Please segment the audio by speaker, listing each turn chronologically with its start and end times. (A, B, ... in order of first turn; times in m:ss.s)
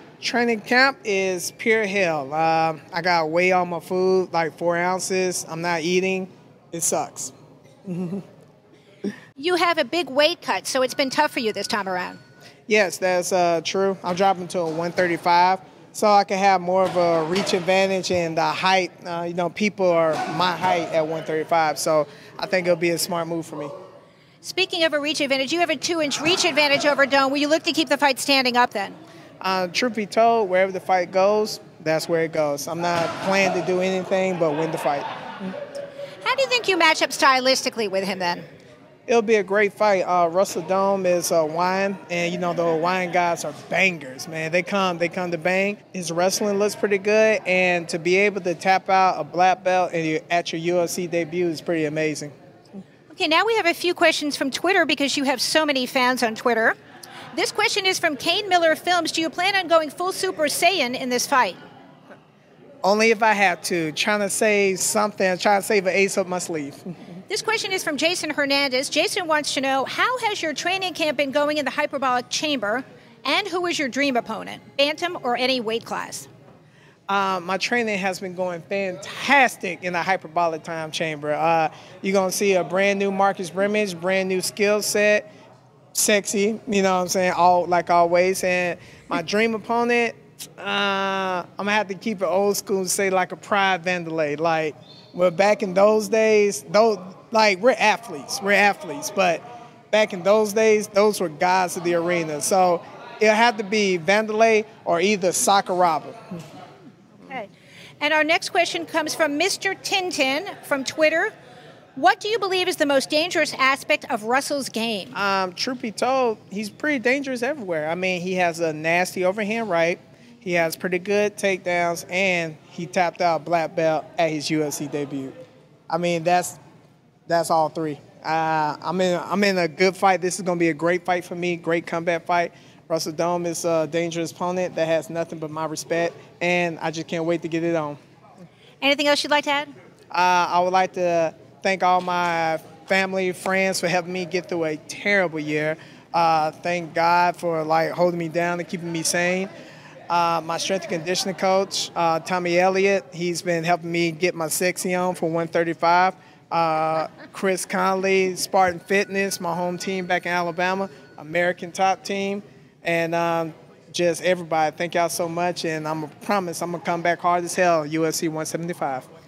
0:00.2-0:07.3 A
0:07.8-0:08.2 A
0:09.4-0:12.2 B
0:12.7-0:23.7 A
0:24.4-0:29.0 B
0:29.4-0:35.0 A
0:36.2-0:38.4 B
0:39.1-0:52.3 A
0:53.1-0:56.8 B
0:57.3-1:01.6 B
1:02.8-1:06.8 A
1:07.3-1:16.3 B
1:17.1-1:25.3 A
1:25.9-1:46.2 A
1:47.2-1:51.3 B
1:52.0-1:55.2 B
1:55.2-2:05.3 A
2:05.9-2:06.6 A
2:07.3-2:18.0 A
2:18.8-2:19.7 B
2:20.1-2:29.5 A
2:30.1-2:49.1 A